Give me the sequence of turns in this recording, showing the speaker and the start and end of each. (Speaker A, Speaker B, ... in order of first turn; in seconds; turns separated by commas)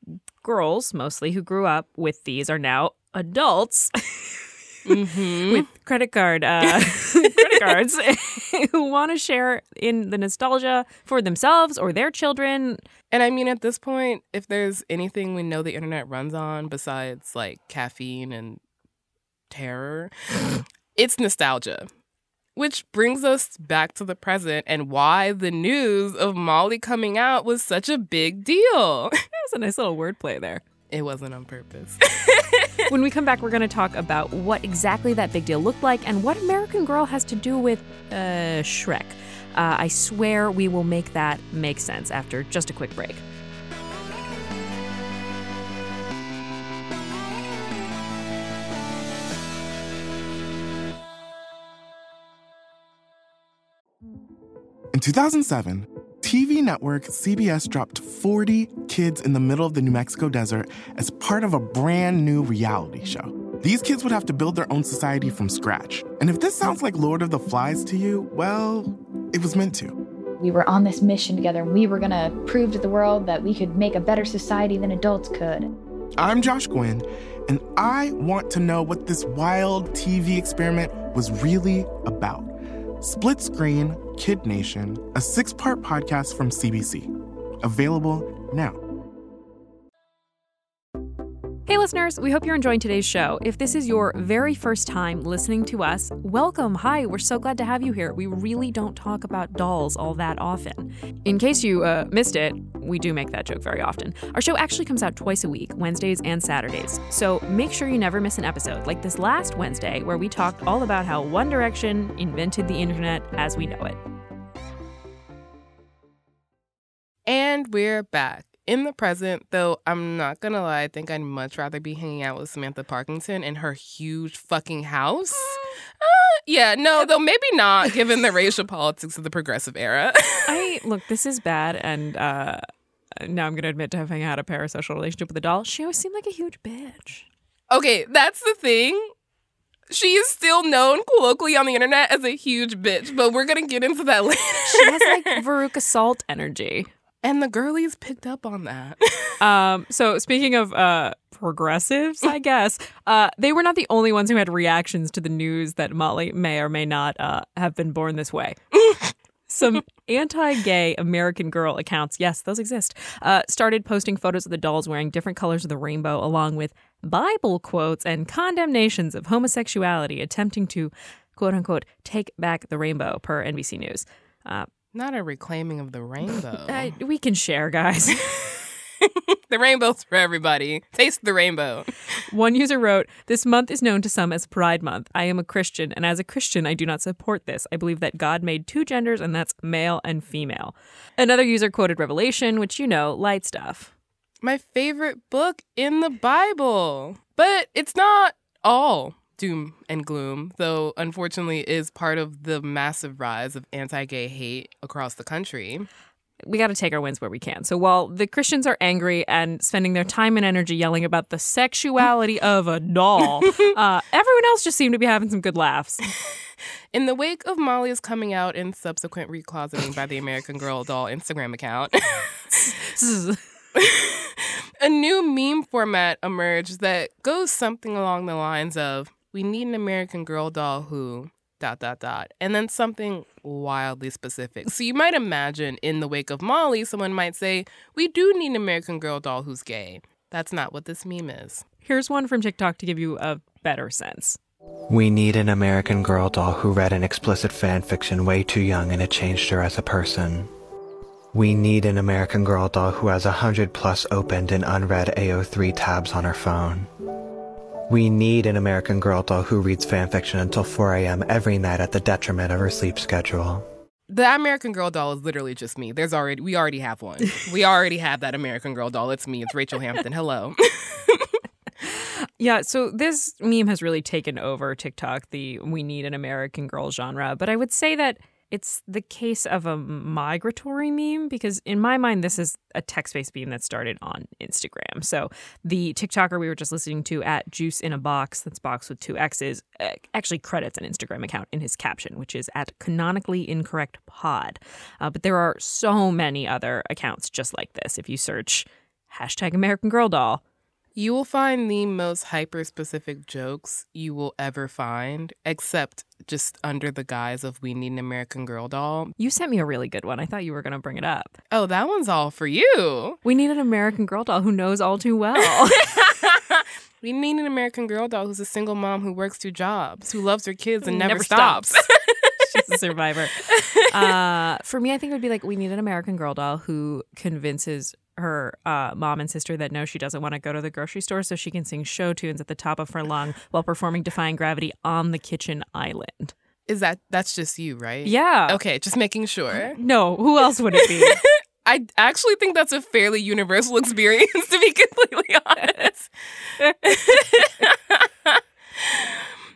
Speaker A: 0.4-4.4, Speaker B: 4.9-5.7, Speaker A: 5.5-12.8, Speaker B: 7.2-7.5, Speaker B: 13.1-18.6, Speaker B: 19.5-21.9, Speaker B: 22.6-29.2, Speaker A: 29.4-30.6, Speaker B: 30.9-32.7, Speaker A: 32.9-43.2, Speaker C: 54.9-70.0, Speaker D: 70.4-75.7, Speaker C: 76.2-87.1, Speaker C: 87.6-88.8, Speaker A: 91.7-114.0, Speaker B: 117.3-130.7, Speaker A: 125.4-125.7, Speaker A: 130.5-132.7, Speaker A: 133.2-137.3, Speaker B: 137.7-139.1, Speaker B: 139.9-145.4, Speaker A: 144.7-146.9, Speaker B: 147.2-149.4, Speaker A: 149.4-158.6, Speaker A: 159.5-174.7, Speaker B: 174.9-176.9, Speaker A: 176.7-178.7, Speaker B: 179.0-181.9, Speaker A: 182.3-193.9, Speaker B: 194.4-205.9, Speaker A: 206.4-216.1, Speaker B: 216.9-222.7, Speaker A: 222.6-223.4, Speaker B: 223.8-241.7, Speaker A: 241.8-244.4, Speaker E: 244.9-250.5, Speaker E: 251.3-256.9, Speaker E: 257.9-263.6, Speaker B: 264.1-271.4, Speaker A: 271.8-300.4, Speaker B: 301.0-309.1, Speaker A: 309.2-311.4, Speaker B: 311.5-313.2, Speaker A: 313.2-316.0, Speaker B: 316.0-322.3, Speaker A: 320.8-336.3, Speaker B: 323.5-323.8, Speaker B: 336.7-339.8, Speaker A: 338.1-338.6, Speaker A: 339.5-341.2, Speaker B: 340.8-346.1, Speaker A: 345.6-345.9, Speaker B: 346.8-349.3